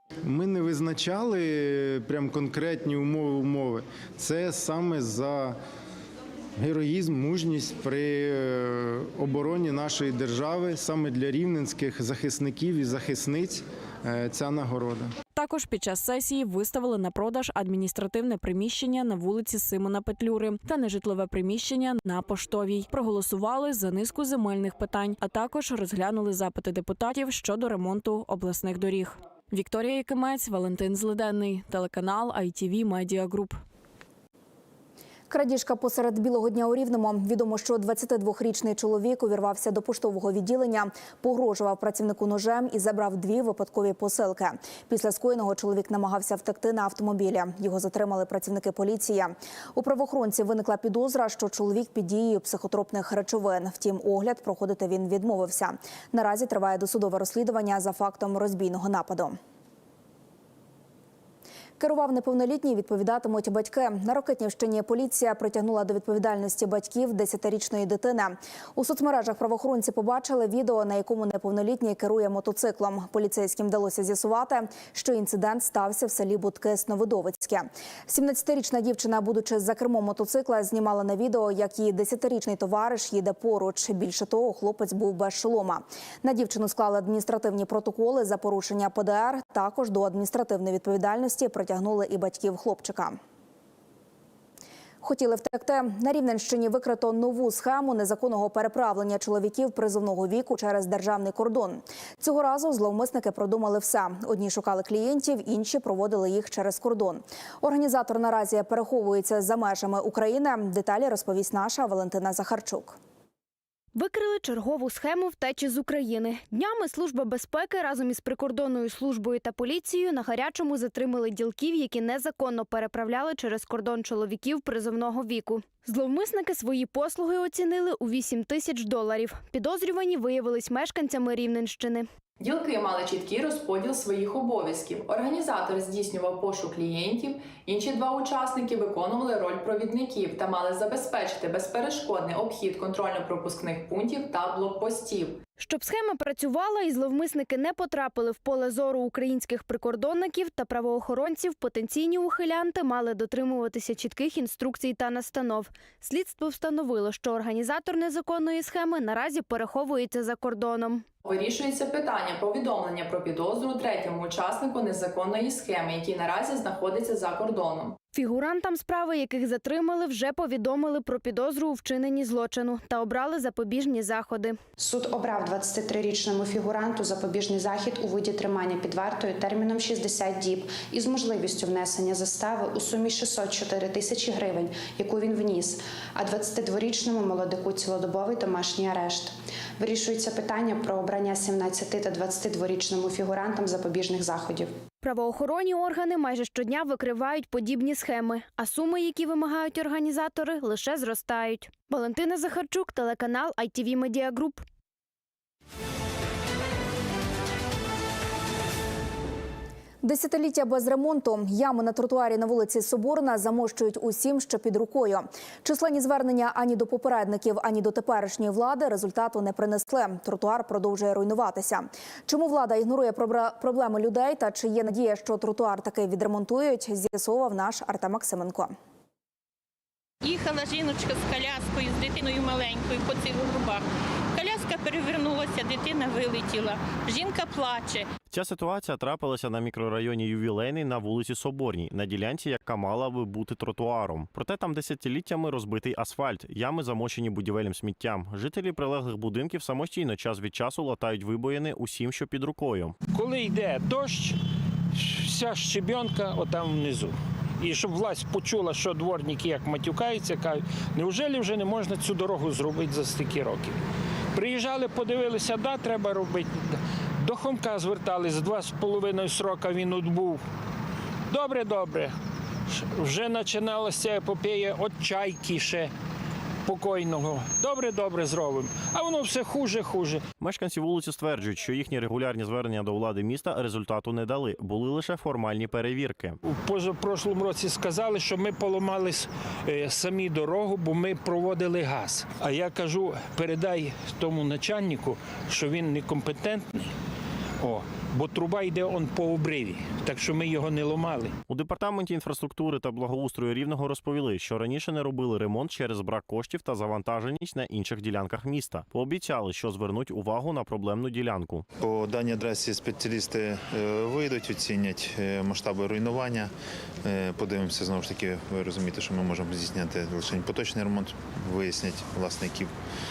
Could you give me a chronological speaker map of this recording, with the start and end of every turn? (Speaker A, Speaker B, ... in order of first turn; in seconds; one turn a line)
Speaker A: 0.2-5.6
Speaker A: 6.6-15.1
Speaker B: 15.3-33.6
Speaker C: 35.3-59.4
Speaker C: 61.8-93.2
Speaker C: 95.0-113.0
Speaker D: 114.0-132.1
Speaker E: 132.4-145.4
Speaker D: 145.6-161.1
Speaker E: 161.2-168.0
Speaker D: 168.1-174.6
Speaker F: 174.8-194.7
Speaker D: 195.0-204.6
Speaker C: 210.0-228.8
Speaker G: 230.2-238.1
Speaker H: 238.3-253.0
Speaker I: 253.1-254.4
Speaker I: 254.9-263.8
Speaker I: 264.3-270.4
Speaker I: 271.3-272.1
Speaker I: 272.7-275.9
Speaker I: 276.6-280.2
Speaker H: 280.4-286.4
Speaker I: 286.4-296.9
Speaker I: 297.6-301.4
Speaker H: 301.5-311.6
Speaker J: 311.8-316.5
Speaker J: 317.0-322.7